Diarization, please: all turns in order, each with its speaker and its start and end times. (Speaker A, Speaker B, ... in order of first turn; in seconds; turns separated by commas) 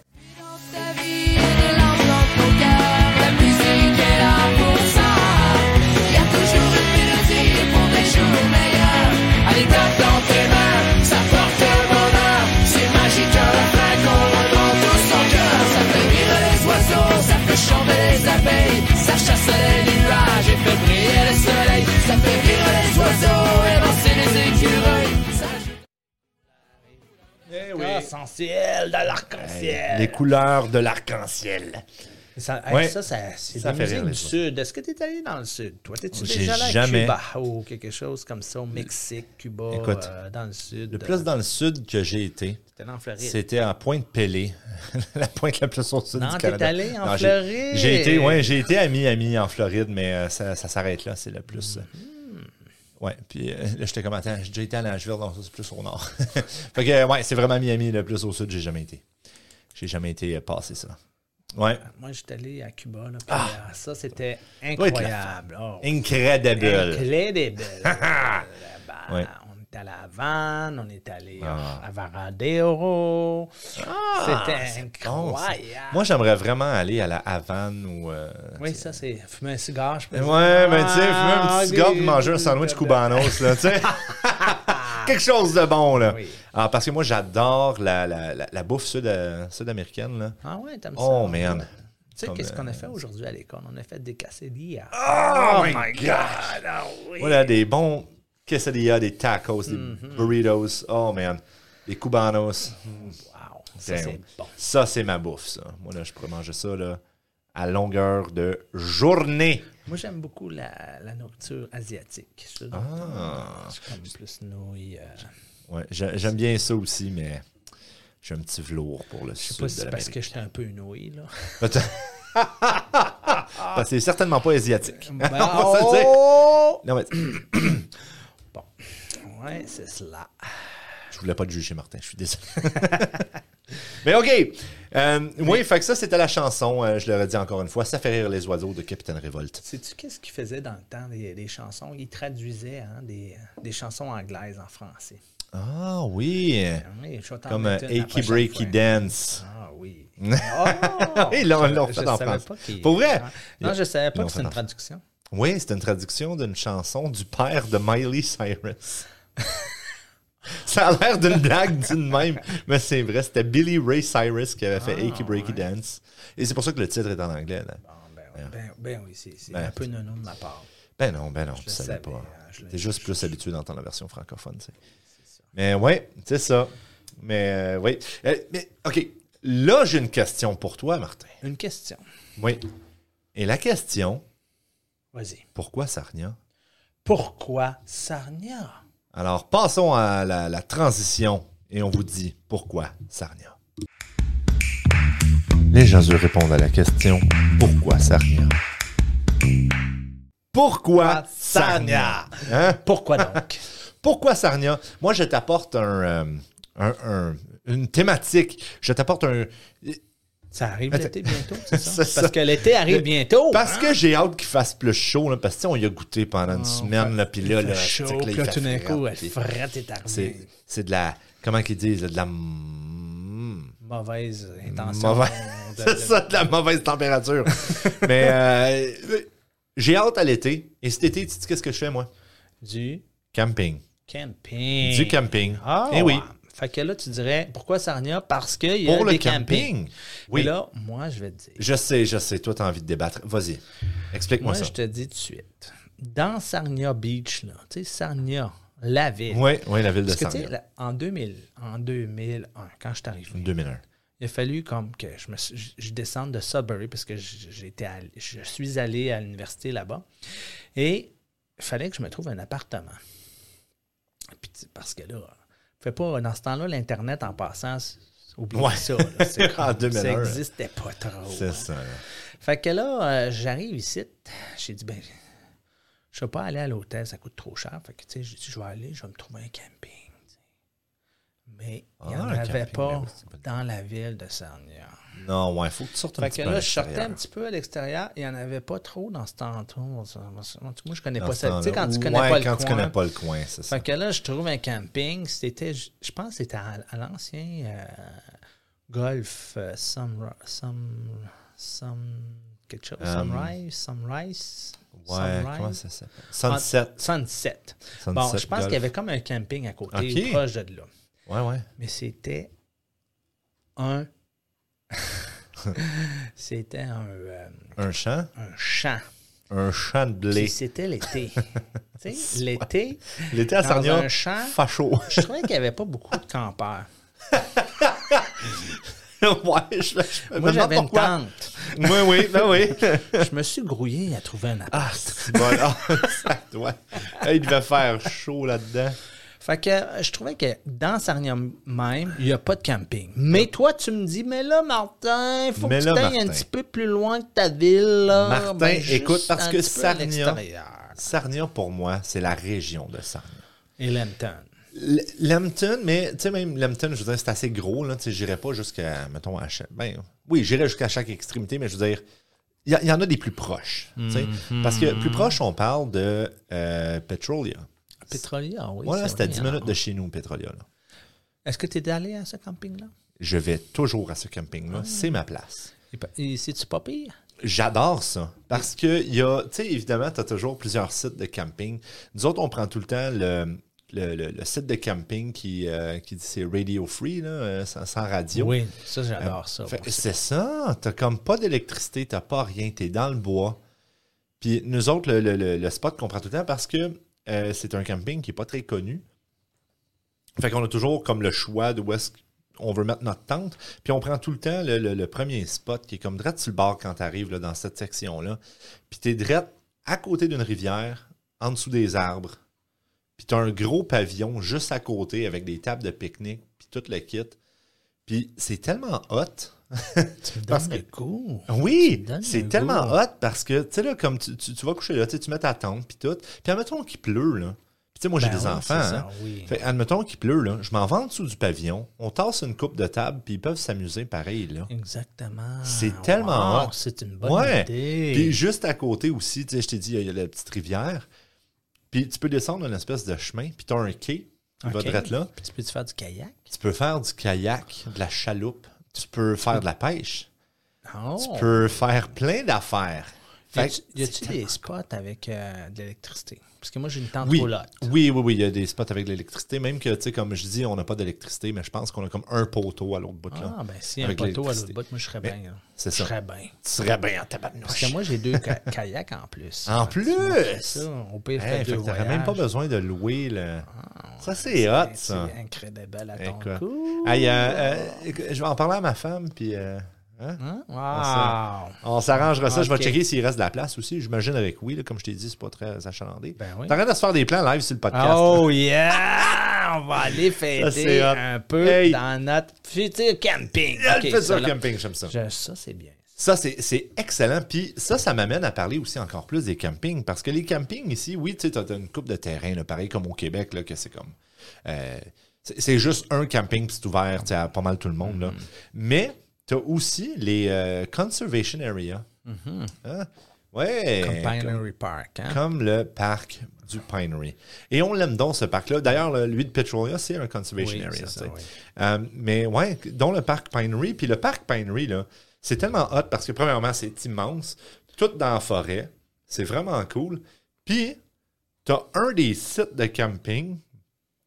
Speaker A: 0.5-25.3, Speaker B: 17.7-19.4, Speaker B: 20.9-25.6, Speaker C: 27.5-28.1, Speaker B: 27.6-30.3, Speaker C: 29.3-31.8, Speaker B: 32.4-41.3, Speaker C: 32.7-33.0, Speaker C: 33.5-34.4, Speaker C: 36.1-37.1, Speaker C: 39.7-40.1, Speaker C: 40.9-42.6, Speaker B: 42.7-43.4, Speaker C: 43.2-51.9, Speaker B: 46.1-48.6, Speaker B: 51.6-52.5, Speaker C: 53.0-59.0, Speaker C: 59.7-61.0, Speaker C: 61.5-61.8, Speaker B: 61.8-66.0, Speaker C: 63.3-63.5, Speaker C: 64.7-67.1, Speaker B: 66.5-76.0, Speaker C: 67.8-68.4, Speaker C: 71.4-71.8, Speaker C: 73.8-79.0, Speaker B: 78.6-85.1, Speaker C: 80.1-90.4, Speaker B: 86.0-86.4, Speaker B: 90.4-97.5, Speaker C: 91.0-91.7, Speaker C: 92.2-92.9, Speaker C: 94.9-96.6, Speaker C: 97.2-103.2, Speaker B: 99.7-100.3, Speaker B: 102.9-104.5, Speaker C: 103.8-107.0, Speaker C: 107.5-109.7, Speaker B: 109.8-115.3, Speaker C: 112.7-113.8, Speaker C: 115.7-117.5, Speaker C: 118.2-120.2, Speaker B: 119.4-121.9, Speaker C: 121.6-127.9, Speaker B: 123.3-123.8, Speaker B: 124.9-126.8, Speaker B: 128.5-130.7, Speaker C: 131.1-133.3, Speaker B: 132.8-133.0, Speaker C: 133.9-139.6, Speaker B: 139.6-145.2, Speaker C: 145.5-146.8, Speaker B: 146.8-155.0, Speaker C: 147.5-149.4, Speaker C: 150.2-154.6, Speaker C: 155.3-159.0, Speaker C: 160.4-167.8, Speaker B: 164.8-165.6, Speaker B: 167.8-170.7, Speaker C: 169.5-169.8, Speaker C: 171.0-174.8, Speaker B: 171.6-173.2, Speaker C: 175.5-181.3, Speaker B: 181.4-182.0, Speaker C: 182.4-182.6, Speaker C: 183.3-184.2, Speaker B: 185.1-185.4, Speaker C: 185.6-186.4, Speaker B: 187.0-188.8, Speaker C: 189.1-193.6, Speaker C: 195.7-198.6, Speaker C: 200.5-203.4, Speaker B: 201.0-203.7, Speaker C: 204.0-210.0, Speaker B: 210.5-214.0, Speaker C: 210.9-219.3, Speaker B: 216.4-220.5, Speaker C: 220.1-223.7, Speaker B: 223.8-226.5, Speaker C: 224.6-232.1, Speaker B: 227.7-228.1, Speaker B: 232.6-233.0, Speaker C: 233.3-233.8, Speaker B: 234.1-239.7, Speaker C: 234.8-236.2, Speaker C: 238.8-240.5, Speaker B: 240.3-241.6, Speaker C: 241.6-244.7, Speaker B: 244.4-249.5, Speaker C: 249.3-250.5, Speaker B: 250.1-253.5, Speaker C: 253.3-253.8, Speaker B: 254.2-260.1, Speaker B: 260.8-263.0, Speaker B: 264.4-271.7, Speaker C: 268.5-270.4, Speaker C: 271.3-272.0, Speaker B: 272.4-275.2, Speaker B: 276.1-280.3, Speaker B: 281.5-285.0, Speaker C: 282.0-283.4, Speaker C: 285.1-287.2, Speaker B: 286.2-292.9, Speaker C: 291.2-293.8, Speaker B: 293.7-305.8, Speaker C: 303.0-303.5, Speaker C: 304.9-306.9, Speaker B: 306.4-310.9, Speaker C: 308.0-308.8, Speaker C: 309.9-310.4, Speaker C: 311.3-311.6, Speaker B: 311.8-312.5, Speaker B: 313.8-314.1, Speaker B: 314.9-317.8, Speaker C: 317.8-318.3, Speaker B: 318.3-319.0, Speaker C: 319.5-320.6, Speaker B: 320.3-326.9, Speaker C: 323.3-325.3, Speaker C: 327.3-333.3, Speaker B: 330.3-336.2, Speaker C: 334.7-339.0, Speaker B: 339.4-351.0, Speaker C: 345.6-346.4, Speaker C: 348.1-350.4, Speaker C: 350.9-353.4, Speaker B: 353.8-354.5, Speaker C: 354.7-362.0, Speaker C: 362.6-367.7, Speaker B: 364.0-365.4, Speaker B: 368.1-369.8, Speaker C: 368.8-370.6, Speaker B: 371.4-372.9, Speaker C: 373.2-375.7, Speaker B: 374.7-375.1, Speaker B: 375.9-377.1, Speaker C: 377.4-388.6, Speaker B: 388.3-390.1, Speaker C: 389.2-393.6, Speaker C: 394.4-399.0, Speaker C: 400.4-412.4, Speaker C: 413.2-417.4, Speaker C: 418.1-420.8, Speaker B: 420.2-423.0, Speaker C: 421.5-434.7, Speaker B: 428.2-429.6, Speaker B: 434.7-438.4, Speaker C: 435.6-441.1, Speaker C: 441.9-445.3, Speaker B: 444.6-446.5, Speaker C: 446.5-450.3, Speaker B: 450.9-451.7, Speaker C: 451.2-454.6, Speaker B: 453.5-457.9, Speaker C: 457.2-468.6, Speaker B: 463.3-466.6, Speaker B: 467.6-472.4, Speaker C: 469.6-473.7, Speaker B: 473.7-478.0, Speaker C: 474.2-475.3, Speaker C: 476.2-480.4, Speaker B: 480.4-483.0, Speaker C: 480.9-488.5, Speaker B: 486.4-486.8, Speaker B: 487.9-496.0, Speaker C: 490.5-492.0, Speaker C: 493.8-495.1, Speaker C: 496.2-512.1, Speaker B: 508.1-508.4, Speaker B: 512.2-512.8, Speaker C: 512.8-514.6, Speaker B: 514.0-515.4, Speaker C: 515.3-531.0, Speaker B: 520.6-521.5, Speaker C: 531.6-533.6